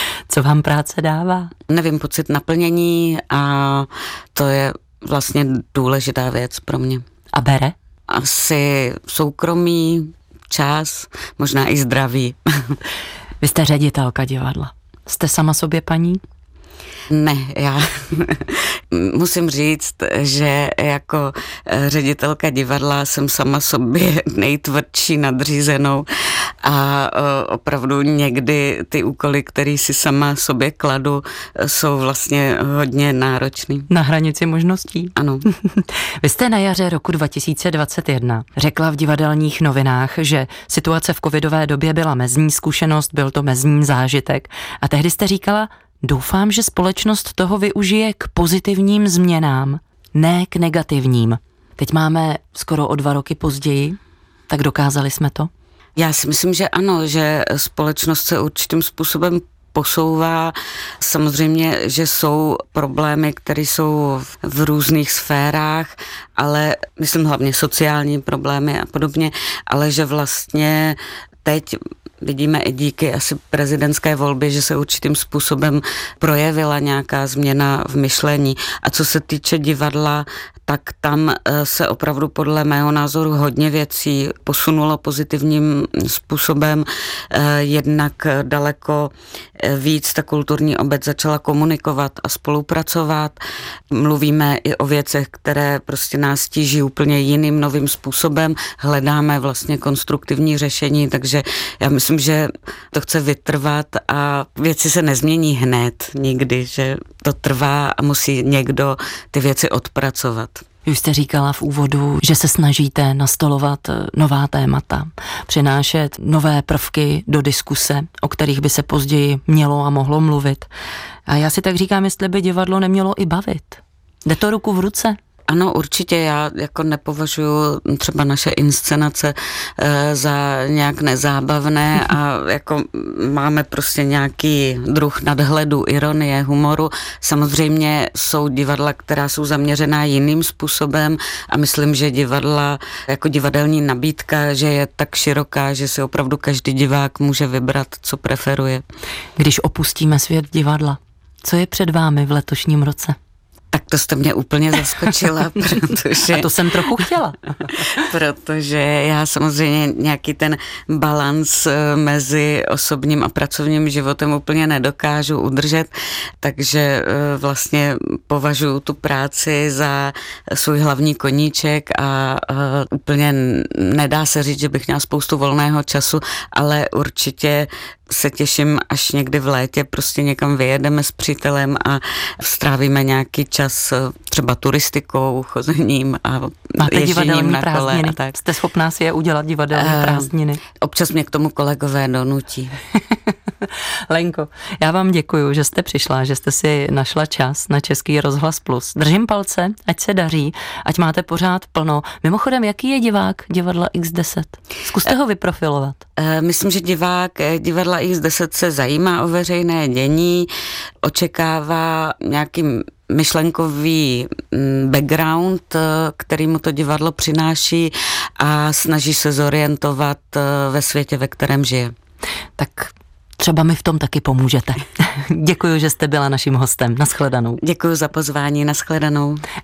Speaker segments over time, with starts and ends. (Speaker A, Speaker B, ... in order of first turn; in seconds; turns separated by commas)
Speaker A: 0.3-1.5, Speaker B: 1.7-7.0, Speaker A: 7.3-7.7, Speaker B: 8.1-12.8, Speaker A: 13.4-16.2, Speaker B: 17.1-33.9, Speaker A: 33.9-54.0, Speaker B: 35.1-35.4, Speaker A: 54.5-55.5, Speaker B: 56.0-110.6, Speaker A: 110.8-120.7, Speaker A: 121.3-125.2, Speaker B: 125.5-148.8, Speaker A: 149.4-153.2, Speaker B: 153.7-157.0, Speaker A: 156.3-157.4, Speaker B: 157.7-188.4, Speaker A: 186.8-190.6, Speaker B: 189.7-192.8, Speaker A: 193.7-206.0, Speaker B: 206.2-210.5, Speaker B: 211.0-221.9, Speaker A: 222.6-227.6, Speaker B: 227.6-229.4